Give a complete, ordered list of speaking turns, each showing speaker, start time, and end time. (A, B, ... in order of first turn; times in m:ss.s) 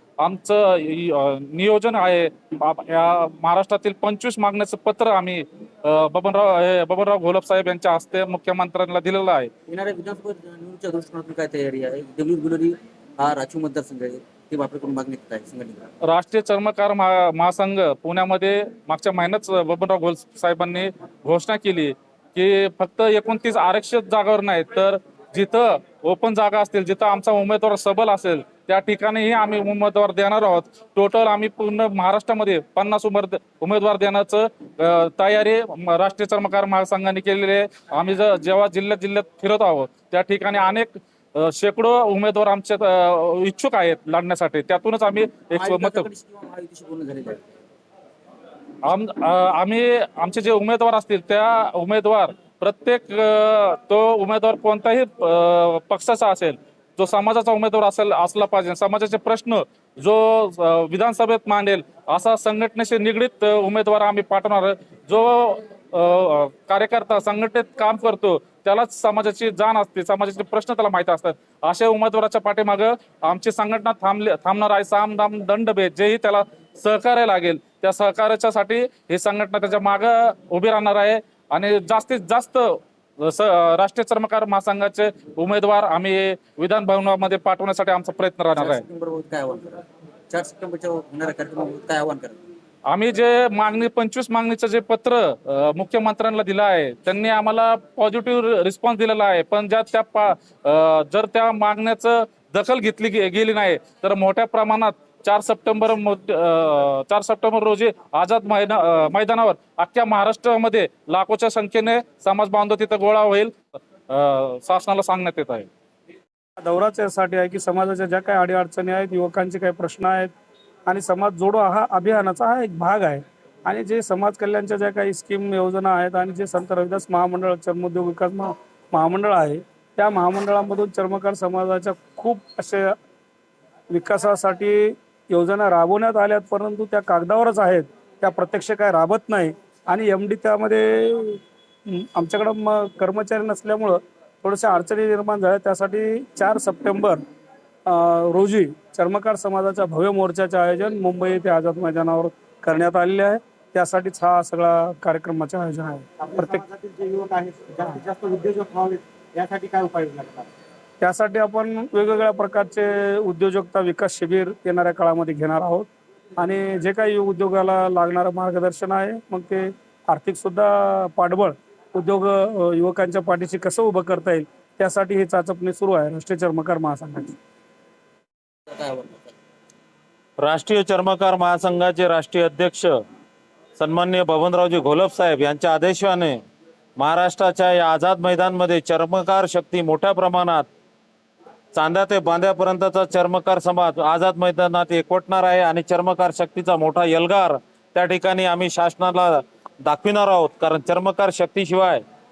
0:00.2-0:09.5 A
0:09.7-0:15.9 B
0:16.1-0:46.1 A
0:45.6-0:47.3 B
0:48.9-1:28.8 A
1:28.6-1:29.8 B
1:30.3-1:32.3 B
1:32.9-1:53.5 A
1:54.1-1:55.7 A
1:56.6-2:00.3 C
2:00.9-2:12.9 C
2:13.9-2:27.2 C
2:27.8-2:36.6 C
2:36.3-2:40.5 D
2:41.0-2:45.9 C
2:46.4-2:57.4 C
2:58.7-2:59.2 B
3:00.4-3:02.9 E
3:03.8-3:06.4 E
3:07.0-3:10.7 E
3:11.7-3:22.0 E